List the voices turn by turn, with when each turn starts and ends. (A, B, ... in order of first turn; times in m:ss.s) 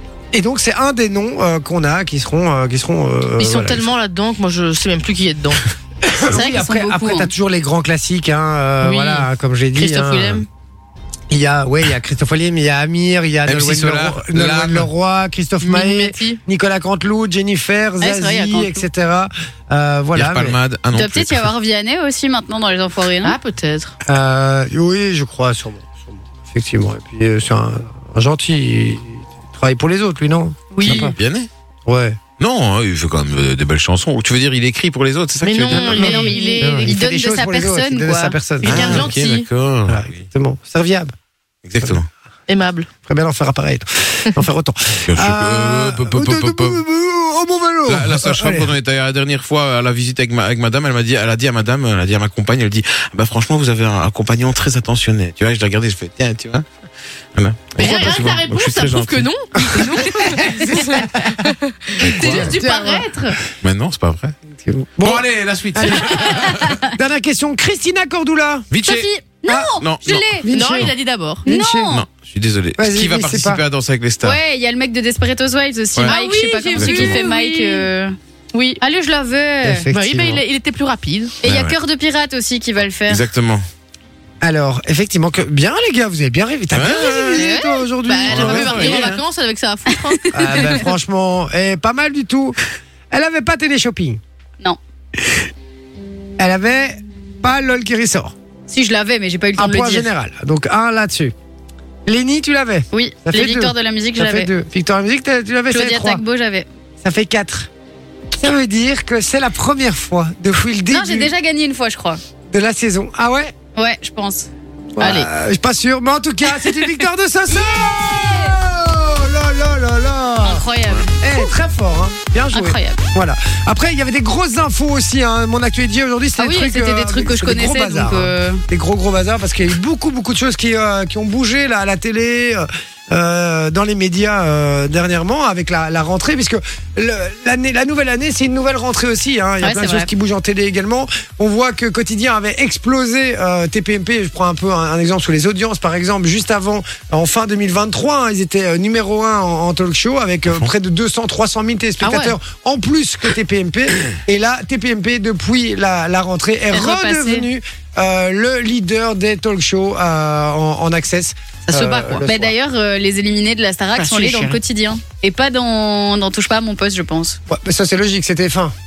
0:00.3-0:03.9 A
0:03.4-0:05.6 B
0:06.0-0:10.4 A
0:06.3-0:07.3 C
0:08.8-0:10.5 B
0:11.3-0:20.6 A
0:13.4-0:14.9 D
0:15.6-0:16.4 B
0:18.0-0:18.9 B
0:20.1-0:21.5 D
0:20.9-0:23.4 C
0:23.2-0:23.9 B
0:24.0-0:31.1 A
0:30.7-0:31.1 B
0:30.8-0:31.5 D
0:31.8-0:32.2 A
0:32.4-0:36.2 D
0:35.4-0:36.9 B
0:35.7-0:39.1 A
0:36.0-0:38.4 C
0:38.6-0:39.5 B
0:38.6-0:40.2 D
0:39.9-0:41.1 A
0:41.6-0:42.1 D
0:42.5-0:42.9 B
0:43.0-0:48.7 A
0:45.1-0:46.8 D
0:47.9-0:56.6 D
0:57.4-0:59.3 D
0:57.8-1:03.4 B
1:00.0-1:03.1 A
1:02.2-1:02.5 D
1:03.6-1:04.3 D
1:04.5-1:08.7 A
1:05.0-1:06.8 D
1:06.0-1:06.9 C
1:08.7-1:09.1 D
1:08.8-1:10.6 C
1:09.5-1:10.9 A
1:09.8-1:10.9 D
1:10.5-1:11.4 B
1:11.4-1:12.0 A
1:11.4-1:12.0 C
1:11.9-1:14.4 D
1:12.8-1:13.6 A
1:14.2-1:18.1 C
1:16.1-1:17.9 B
1:16.7-1:17.2 D
1:18.5-1:18.8 B
1:18.8-1:19.9 C
1:19.6-1:20.4 A
1:19.9-1:21.3 B
1:21.4-1:23.2 C
1:21.4-1:21.8 D
1:23.1-1:23.6 D
1:24.4-1:29.2 A
1:26.7-1:27.4 D
1:27.4-1:27.8 C
1:27.4-1:30.8 B
1:28.2-1:29.2 D
1:30.3-1:32.6 A
1:30.5-1:30.8 C
1:33.1-1:34.2 A
1:36.4-1:38.3 A
1:38.7-1:40.1 C
1:39.6-1:41.3 A
1:42.0-1:46.2 A
1:42.9-1:44.5 C
1:45.7-1:46.7 C
1:47.0-1:47.7 A
1:48.3-1:51.3 A
1:50.9-1:52.2 C
1:52.5-1:53.5 A
1:53.7-1:55.3 C
1:55.0-2:00.6 A
1:57.5-1:58.5 C
2:00.4-2:01.5 C
2:01.2-2:42.5 A
2:02.5-2:03.0 C
2:06.4-2:08.6 C
2:19.6-2:20.1 C
2:32.0-2:32.3 B
2:36.7-2:37.5 C
2:41.7-2:42.2 B
2:42.2-2:47.4 C
2:43.9-2:44.6 B
2:47.5-2:48.7 A